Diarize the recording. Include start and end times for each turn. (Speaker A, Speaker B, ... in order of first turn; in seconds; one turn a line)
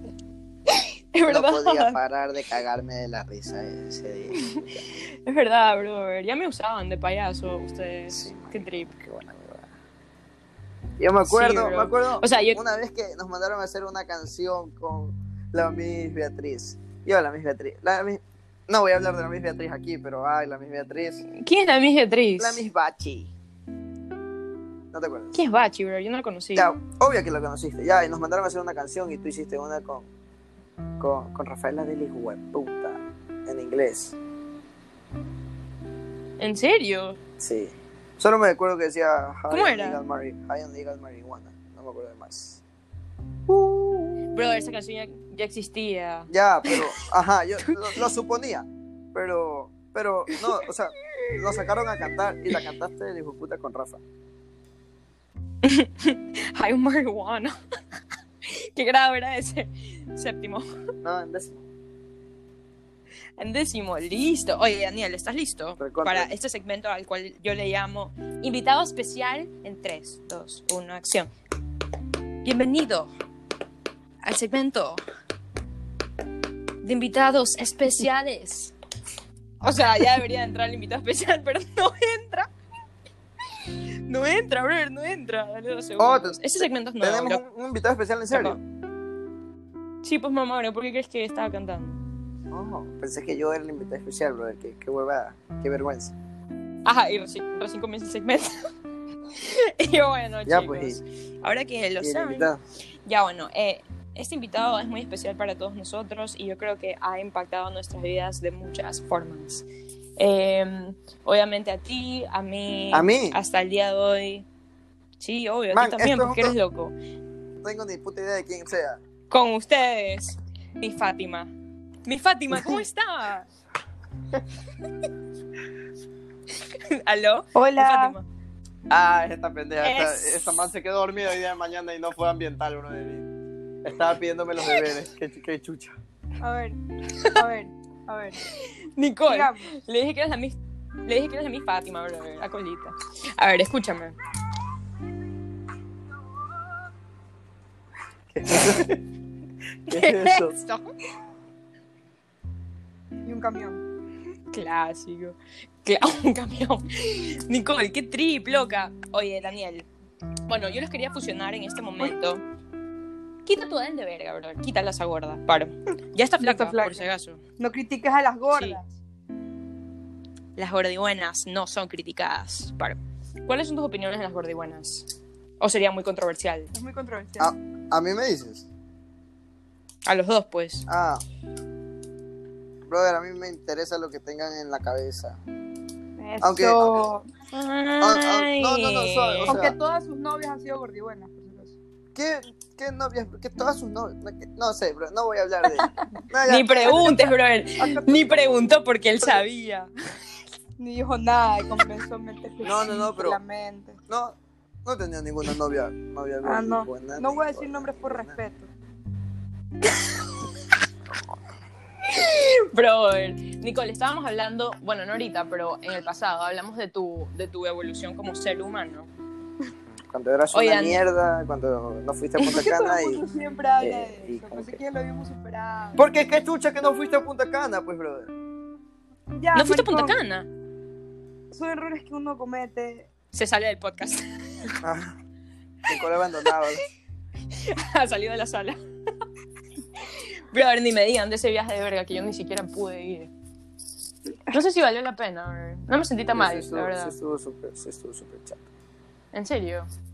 Speaker A: 0.7-2.0
Speaker B: 1.2-4.8
Speaker A: 5.2-9.0
Speaker B: 8.1-9.7
Speaker B: 11.0-21.2
Speaker A: 11.2-12.6
Speaker A: 21.3-22.6
Speaker B: 22.4-23.3
Speaker B: 24.9-25.4
Speaker A: 25.3-26.7
Speaker B: 26.5-30.1
Speaker B: 31.0-34.2
Speaker A: 36.4-37.2
Speaker B: 37.4-42.6
Speaker A: 39.5-40.0
Speaker B: 43.5-44.2
Speaker A: 44.3-46.9
Speaker B: 46.3-54.0
Speaker A: 50.3-50.6
Speaker A: 51.2-51.6
Speaker A: 55.6-57.5
Speaker A: 58.4-60.7
Speaker B: 61.0-61.6
Speaker A: 63.4-71.3
Speaker B: 65.8-66.3
Speaker A: 72.4-73.1
Speaker A: 74.2-75.0
Speaker A: 76.8-78.7
Speaker A: 79.6-82.5
Speaker A: 84.1-87.4
Speaker B: 86.0-86.4
Speaker B: 87.0-88.6
Speaker A: 88.3-88.6
Speaker A: 90.0-92.0
Speaker B: 92.5-96.1
Speaker A: 96.8-98.7
Speaker A: 99.3-102.5
Speaker B: 100.5-101.0
Speaker B: 102.0-102.6
Speaker A: 103.0-109.6
Speaker A: 110.2-114.5
Speaker B: 112.9-113.4
Speaker A: 115.2-116.9
Speaker B: 115.7-116.5
Speaker B: 117.6-119.0
Speaker A: 119.3-121.5
Speaker A: 122.0-123.5
Speaker A: 126.6-128.2
Speaker C: 127.5-128.2
Speaker B: 128.9-133.3
Speaker A: 129.8-130.7
Speaker B: 133.8-136.0
Speaker C: 136.4-138.4
Speaker A: 138.5-144.2
Speaker C: 139.3-139.7
Speaker B: 148.3-149.0
Speaker B: 149.9-150.6
Speaker A: 149.9-150.9
Speaker C: 153.2-153.8
Speaker A: 154.5-159.9
Speaker A: 160.5-162.4
Speaker A: 163.4-167.4
Speaker C: 166.4-167.1
Speaker C: 167.6-168.9
Speaker A: 168.5-168.8
Speaker A: 170.6-175.1
Speaker A: 175.6-176.7
Speaker C: 176.7-177.5
Speaker B: 177.4-178.7
Speaker A: 180.1-180.8
Speaker B: 180.9-181.2
Speaker B: 182.9-185.4
Speaker C: 186.2-187.2
Speaker B: 186.4-187.0
Speaker A: 187.5-189.5
Speaker B: 188.0-189.8
Speaker C: 189.4-191.8
Speaker B: 192.1-197.3
Speaker A: 196.4-199.9
Speaker C: 197.8-198.7
Speaker C: 200.8-204.0
Speaker B: 202.6-203.4
Speaker B: 204.1-208.4
Speaker C: 206.4-208.7
Speaker A: 212.1-219.1
Speaker B: 219.9-223.2
Speaker A: 220.5-221.0
Speaker C: 222.4-226.0
Speaker B: 223.8-224.8
Speaker B: 225.9-228.3
Speaker C: 229.4-230.2
Speaker A: 229.5-230.5
Speaker C: 231.5-233.1
Speaker A: 233.3-234.8
Speaker B: 234.8-235.2
Speaker B: 235.8-236.8
Speaker A: 237.5-238.8
Speaker A: 240.1-243.3
Speaker A: 244.5-247.2
Speaker B: 246.3-248.6
Speaker A: 249.3-249.9